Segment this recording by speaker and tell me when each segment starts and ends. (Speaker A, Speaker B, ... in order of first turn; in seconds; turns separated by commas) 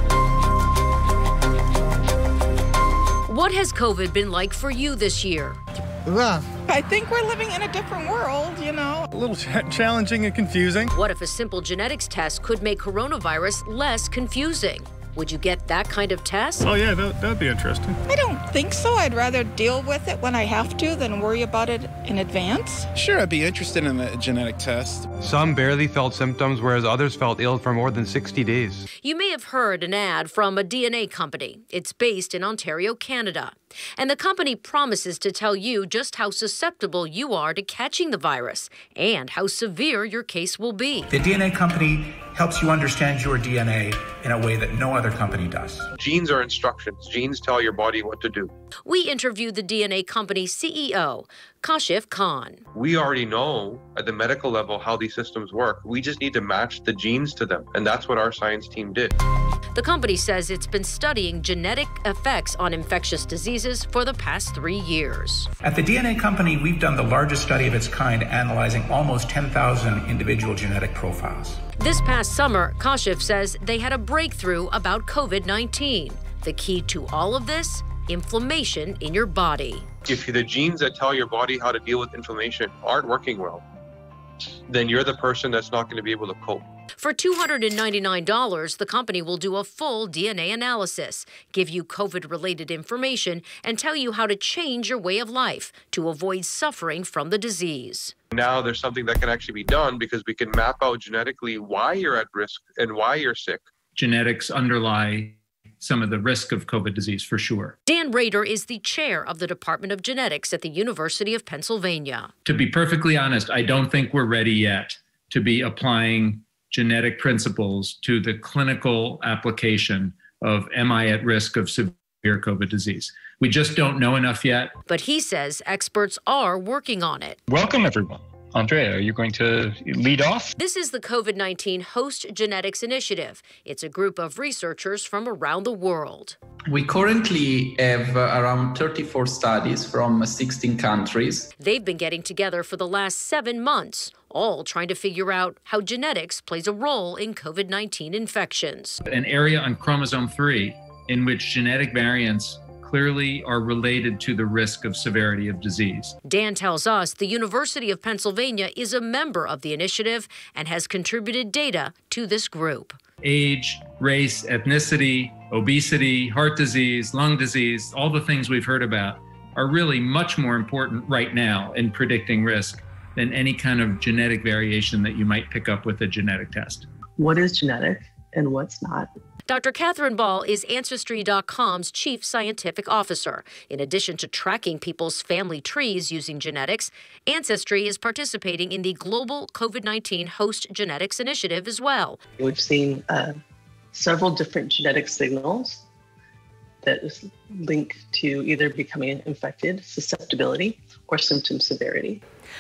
Speaker A: 3.3-5.6, Speaker B: 6.7-9.1, Speaker C: 9.2-10.8, Speaker A: 10.9-16.7, Speaker C: 16.6-17.9, Speaker B: 18.1-22.9, Speaker D: 22.9-25.1, Speaker E: 25.2-28.8, Speaker A: 29.0-41.1, Speaker F: 41.1-45.9, Speaker G: 46.0-48.5, Speaker A: 48.9-52.6, Speaker G: 52.7-59.1, Speaker A: 59.8-65.5, Speaker F: 65.6-71.6, Speaker A: 71.8-79.9, Speaker G: 80.1-83.6, Speaker G: 84.7-86.7, Speaker A: 87.0-98.2, Speaker G: 98.3-103.6, Speaker H: 104.0-107.8, Speaker A: 107.9-112.3, Speaker H: 112.5-124.7, Speaker A: 124.9-127.4, Speaker I: 127.5-130.5, Speaker A: 130.6-136.4, Speaker J: 136.7-141.5, Speaker A: 141.6-149.0, Speaker H: 149.1-156.2, Speaker A: 156.2-163.0, Speaker H: 163.2-176.9, Speaker K: 177.2-179.1, Speaker A: 179.5-192.2, Speaker K: 192.4-193.3, Speaker K: 193.9-195.8, Speaker K: 196.8-202.2